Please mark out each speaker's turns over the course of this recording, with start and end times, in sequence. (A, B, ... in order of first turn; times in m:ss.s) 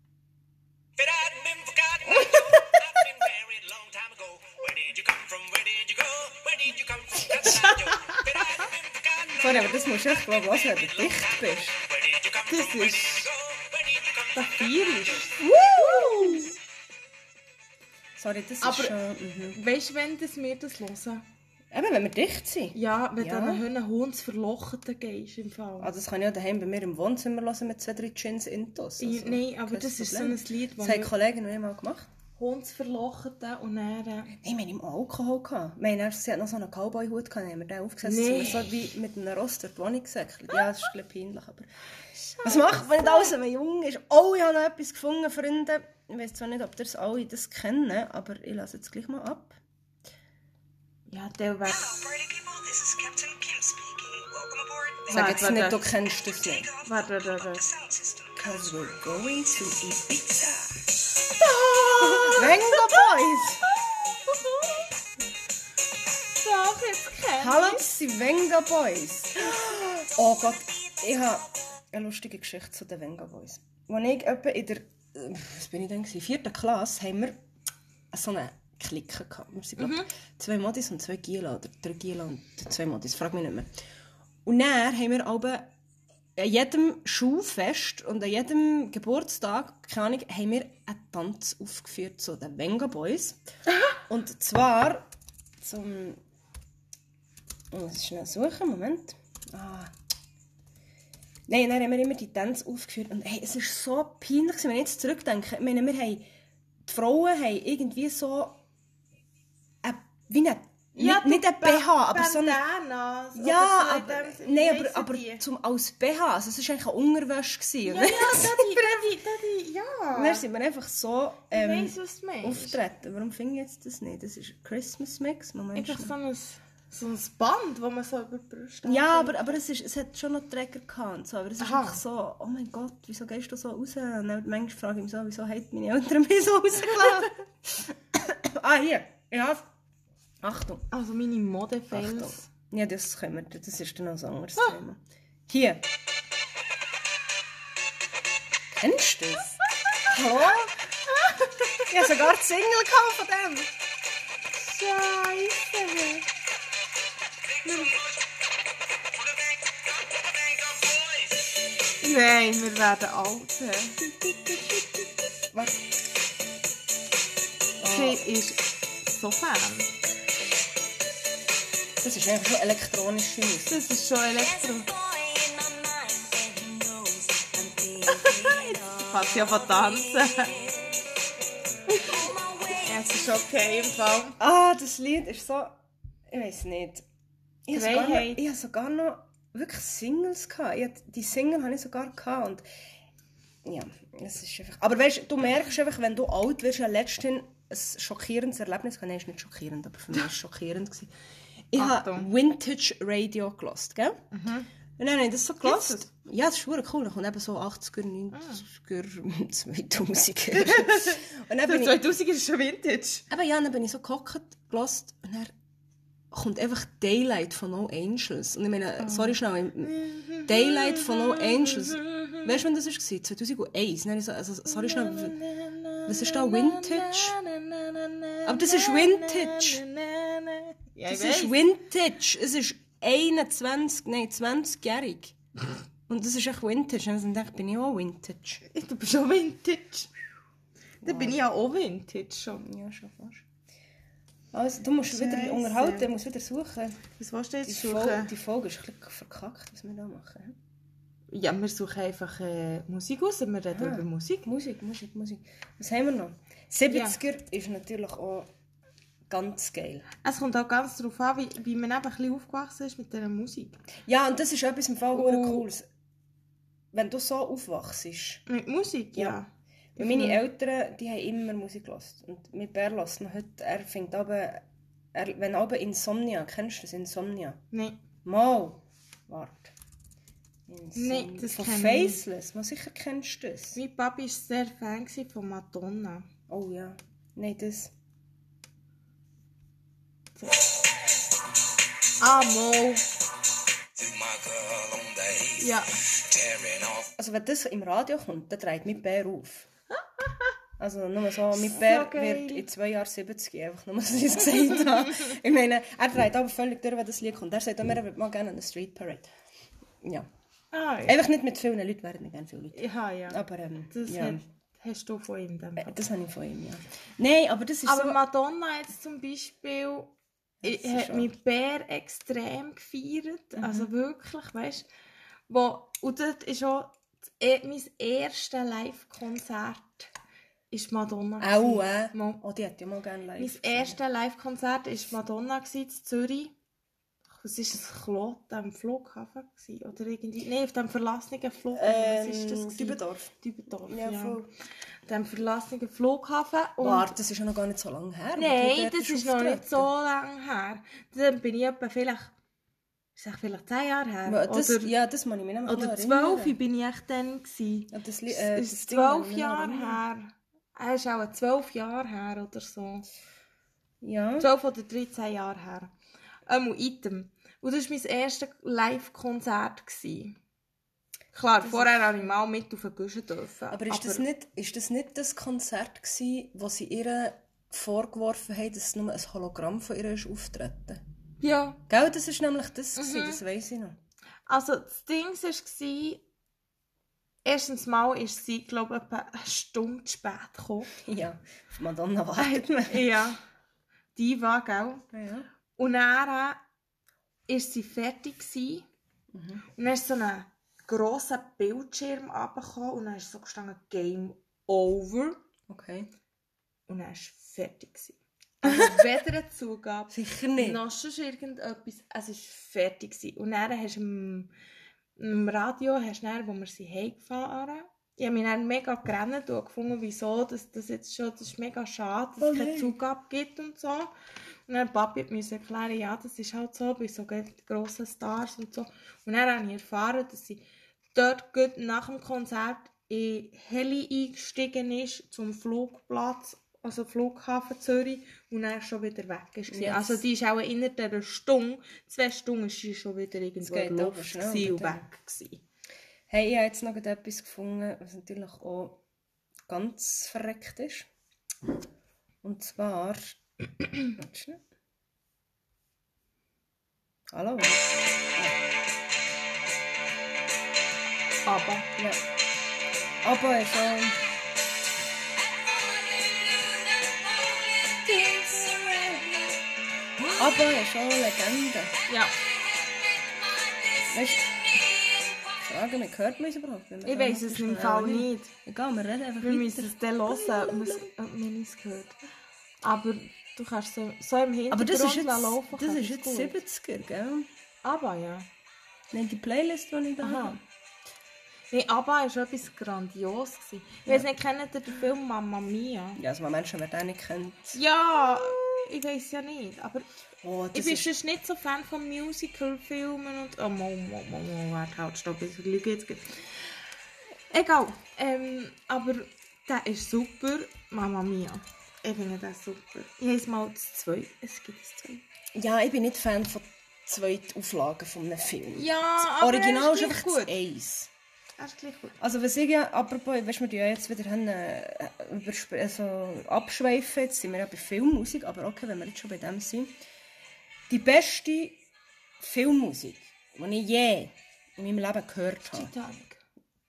0:01.0-0:15.3 A
0:07.6-0:08.6 B
0:09.4-0:11.8 C
0:12.5-0:13.3 B
0:14.3-0:16.5 B
0:15.4-0:16.5 C
0:18.2-0:19.6 C
0:18.6-0:19.0 B
0:19.5-0:21.2 B
0:21.7-0:23.6 C
0:22.7-0:25.9 B
0:25.8-0:32.1 C
0:29.0-0:31.1 B
0:32.4-0:34.3 B
0:34.4-0:41.7 C
0:38.0-0:38.8 B
0:42.3-0:43.3 B
0:42.4-0:49.6 C
0:51.1-0:52.0 B
0:51.6-0:55.2 A
0:55.1-0:55.8 B
0:55.1-0:56.7 C
0:56.2-1:00.8 A
0:56.8-0:57.7 B
0:58.4-1:00.2 C
1:01.4-1:03.1 B
1:02.0-1:03.6 C
1:03.7-1:04.9 B
1:06.4-1:07.8 B
1:07.4-1:17.4 C
1:18.1-1:23.7 C
1:19.8-1:20.1 B
1:24.4-1:25.7 C
1:26.4-1:33.4 C
1:34.0-1:35.0 C
1:35.6-1:36.2 C
1:37.7-1:39.9 C
1:41.5-1:46.3 C
1:46.8-1:48.6 C
1:49.8-1:52.6 C
1:51.0-1:55.4 B
1:53.3-1:59.1 C
1:57.8-2:00.4 B
2:00.1-2:06.1 C
2:01.5-2:02.8 B
2:05.7-2:09.6 B
2:08.8-2:19.6 C
2:11.6-2:12.0 B
2:20.4-2:20.9 C
2:20.9-2:22.5 B
2:21.9-2:25.8 C
2:28.8-2:30.7 C
2:31.1-2:31.9 B
2:31.9-2:33.7 C
2:34.5-2:36.2 B
2:37.6-2:38.3 A
2:39.2-2:41.6 A
2:42.0-2:44.0 B
2:44.0-2:45.0 C
2:45.5-2:45.8 C
2:47.8-2:48.2 C
2:47.8-2:49.9 B
2:52.0-2:53.8 C
2:53.6-2:54.9 B
2:54.9-2:59.9 A
2:58.0-3:00.6 B
3:02.1-3:03.1 A
3:02.6-3:04.4 B
3:04.4-3:07.0 C
3:07.7-3:12.6 C
3:07.7-3:08.4 B
3:13.6-3:21.1 C
3:21.7-3:24.2 C
3:21.8-3:22.3 B
3:24.3-3:24.7 B
3:25.0-3:32.1 C
3:25.6-3:26.1 B
3:28.3-3:28.6 B
3:30.5-3:33.3 B
3:33.3-3:35.5 C
3:36.3-3:45.4 C
3:39.0-3:42.5 B
3:44.7-3:51.6 B
3:46.0-3:47.4 C
3:48.4-3:49.8 C
3:51.1-3:55.4 C
3:56.1-3:58.6 C
3:58.7-4:00.1 B
4:01.0-4:01.4 C
4:01.0-4:02.7 B
4:02.6-4:03.4 C
4:04.5-4:07.0 C
4:05.1-4:06.1 B
4:07.2-4:08.3 B
4:07.6-4:10.6 C
4:11.3-4:14.5 B
4:13.7-4:18.5 C
4:16.9-4:17.2 B
4:19.3-4:20.1 C
4:20.2-4:23.8 B
4:24.0-4:25.8 C
4:25.1-4:25.6 B
4:26.9-4:28.4 C
4:28.5-4:30.4 B
4:29.1-4:29.4 C
4:30.0-4:37.6 C
4:37.7-4:38.0 B
4:38.2-4:39.7 C
4:40.7-4:43.8 C
4:40.9-4:42.2 B
4:43.7-4:46.3 B
4:46.5-4:47.9 C
4:52.2-4:53.0 B
4:53.9-4:57.1 A
4:55.6-4:55.9 B
4:57.2-4:59.7 C
5:00.2-5:00.5 B
5:00.8-5:09.3 C
5:01.5-5:02.6 B
5:10.0-5:10.3 C
5:10.7-5:11.2 B
5:11.0-5:14.4 C
5:12.7-5:16.0 B
5:15.8-5:18.2 C
5:17.8-5:24.9 B
5:20.6-5:21.3 C
5:23.6-5:23.9 C
5:25.5-5:30.1 B
5:30.7-5:32.4 B
5:31.4-5:34.0 C
5:33.4-5:36.5 B
5:37.4-5:44.4 B
5:41.7-5:43.3 C
5:43.9-5:44.5 C
5:45.0-5:47.1 B
5:46.8-5:49.9 C
5:48.4-5:52.3 B
5:53.2-5:54.9 B
5:54.2-5:56.6 C
5:55.6-6:03.1 B
5:57.9-6:00.0 C
6:04.0-6:04.5 C
6:04.4-6:05.9 B
6:06.5-6:10.4 B
6:11.3-6:14.2 B
6:11.6-6:12.3 C
6:13.7-6:21.0 C
6:21.4-6:21.8 B
6:21.9-6:24.0 C
6:23.0-6:23.4 B
6:24.5-6:26.2 B
6:27.4-6:30.9 B
6:31.0-6:33.1 C
6:32.4-6:33.4 B
6:34.1-6:35.0 B
6:35.1-6:35.5 C
6:35.8-6:36.6 B
6:37.5-6:38.9 B
6:39.3-6:39.6 C
6:39.8-6:45.4 B
6:45.7-6:46.1 C
6:46.9-6:54.5 B
6:48.6-6:49.1 C
6:50.1-6:50.8 C
6:55.2-7:04.1 B
7:02.4-7:03.0 C
7:04.7-7:25.6 B
7:19.7-7:20.2 C
7:23.6-7:25.0 C
7:26.3-7:29.0 C
7:29.7-7:31.1 C
7:32.4-7:33.4 C
7:34.1-7:34.6 C
7:37.3-7:38.6 C
7:41.4-7:41.9 B
7:43.2-7:44.2 C
7:45.5-7:49.4 A
7:50.4-7:51.9 C
7:52.1-7:52.3 B
7:54.1-7:54.5 C
7:55.6-8:01.1 C
7:57.0-7:58.5 B
7:59.4-8:02.2 B
8:02.8-8:06.6 B
8:04.7-8:07.5 C
8:07.8-8:08.5 B
8:09.1-8:10.6 C
8:10.2-8:10.6 B
8:11.7-8:16.2 B
8:16.2-8:18.6 C
8:17.7-8:20.1 B
8:20.4-8:21.1 C
8:20.7-8:26.7 B
8:27.5-8:35.2 B
8:35.5-8:41.1 C
8:38.7-8:40.6 B
8:41.6-8:42.2 B
8:42.2-8:50.0 C
8:50.9-8:51.8 C
8:52.4-8:55.9 C
8:55.7-8:56.4 B